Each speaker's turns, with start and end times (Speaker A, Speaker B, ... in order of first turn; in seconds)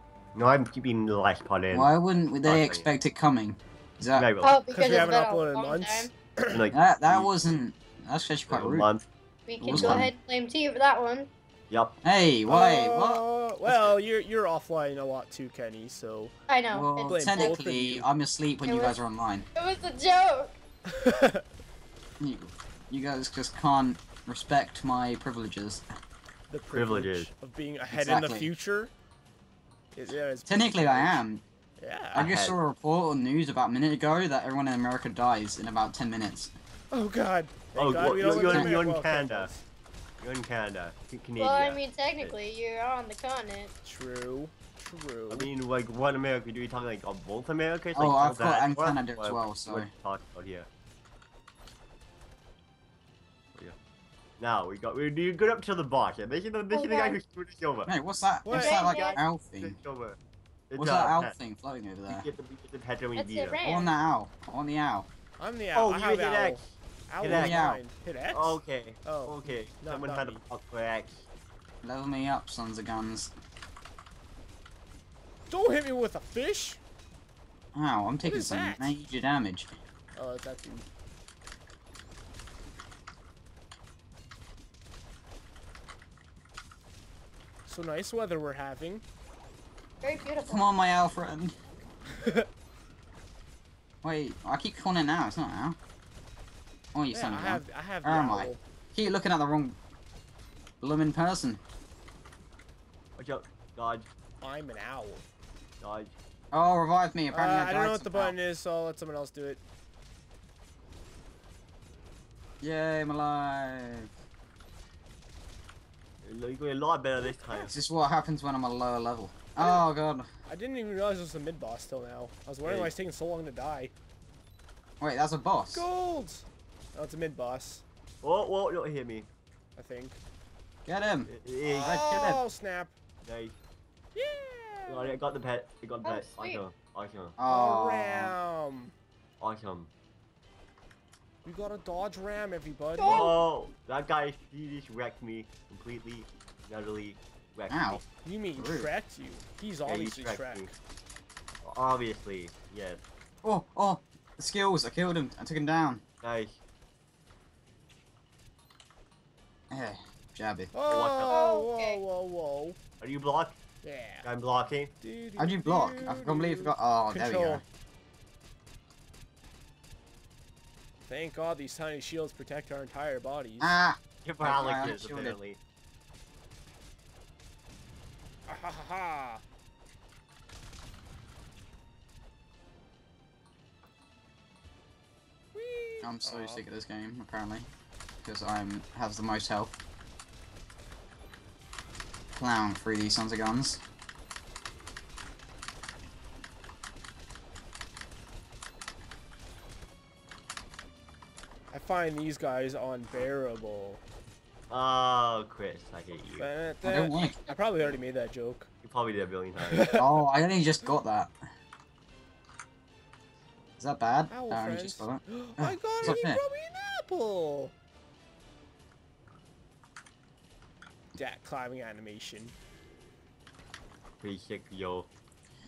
Speaker A: 0.3-1.9, 2.5-2.9, 4.2-5.1, 6.5-7.3, 8.5-9.0, 9.7-10.1, 11.7-12.0, 26.7-27.3, 32.1-32.6, 37.8-39.5, 40.2-42.4, 45.3-50.7, 54.4-57.9, 58.9-60.2, 60.7-61.4, 62.1-63.6, 65.8-66.6, 67.2-67.7, 68.3-71.2, 103.2-104.1, 105.8-106.2, 116.2-117.7, 122.6-122.9, 128.2-129.3, 131.3-132.2, 133.2-133.6, 134.9-137.4, 139.4-139.9, 143.0-148.0, 149.8-150.7, 151.6-153.0, 156.2-156.6, 160.9-161.4, 163.0-163.6, 164.2-164.9, 174.2-175.6, 204.7-206.5, 208.8-209.8, 224.2-225.1
Speaker B: 1.7-4.3, 6.7-8.9, 9.6-10.1, 12.0-13.2, 16.7-19.5, 22.2-25.8, 27.9-28.5, 30.5-31.4, 32.1-36.5, 38.4-38.8, 48.0-49.9, 57.9-59.8, 60.8-62.3, 63.6-65.1, 67.3-67.8, 71.8-73.3, 77.7-79.7, 90.5-91.5, 94.0-95.8, 96.9-99.8, 100.8-101.6, 106.5-108.3, 112.6-114.1, 117.6-120.3, 125.0-125.8, 130.9-131.3, 131.8-132.4, 137.4-138.3, 147.7-148.0, 148.6-148.9, 153.4-156.0, 159.7-160.7, 165.4-167.6, 173.6-175.4, 186.0-187.7, 188.2-189.8, 192.4-193.8, 206.8-207.4, 210.0-211.3, 213.8-216.4
Speaker C: 4.4-6.1, 9.5-11.3, 16.5-17.6, 18.7-19.0, 19.6-20.6, 41.4-43.7, 56.7-57.2, 58.5-59.2, 63.2-63.9, 90.0-90.7, 136.0-136.6, 143.0-143.4, 161.3-162.0
Speaker D: 4.7-6.6, 12.5-16.4, 17.1-18.1, 20.9-21.4, 26.5-28.9, 29.9-31.2, 31.8-32.3, 36.9-39.6, 43.8-45.5, 58.5-58.9, 65.4-70.4, 75.5-76.8, 78.2-79.0, 80.2-80.9, 87.7-89.0, 92.2-92.5, 97.1-98.6, 104.4-105.3, 107.3-109.6, 119.6-119.9, 120.5-123.9, 125.7-127.8, 129.8-130.2, 131.7-132.9, 134.2-135.2, 137.5-138.9, 141.4-143.3, 148.2-150.8, 160.7-162.8, 163.8-164.3, 165.0-167.6, 171.1-173.8, 178.5-179.4, 185.5-186.6, 201.7-204.0, 206.4-208.7, 209.7-210.0, 214.3-217.7, 221.2-222.6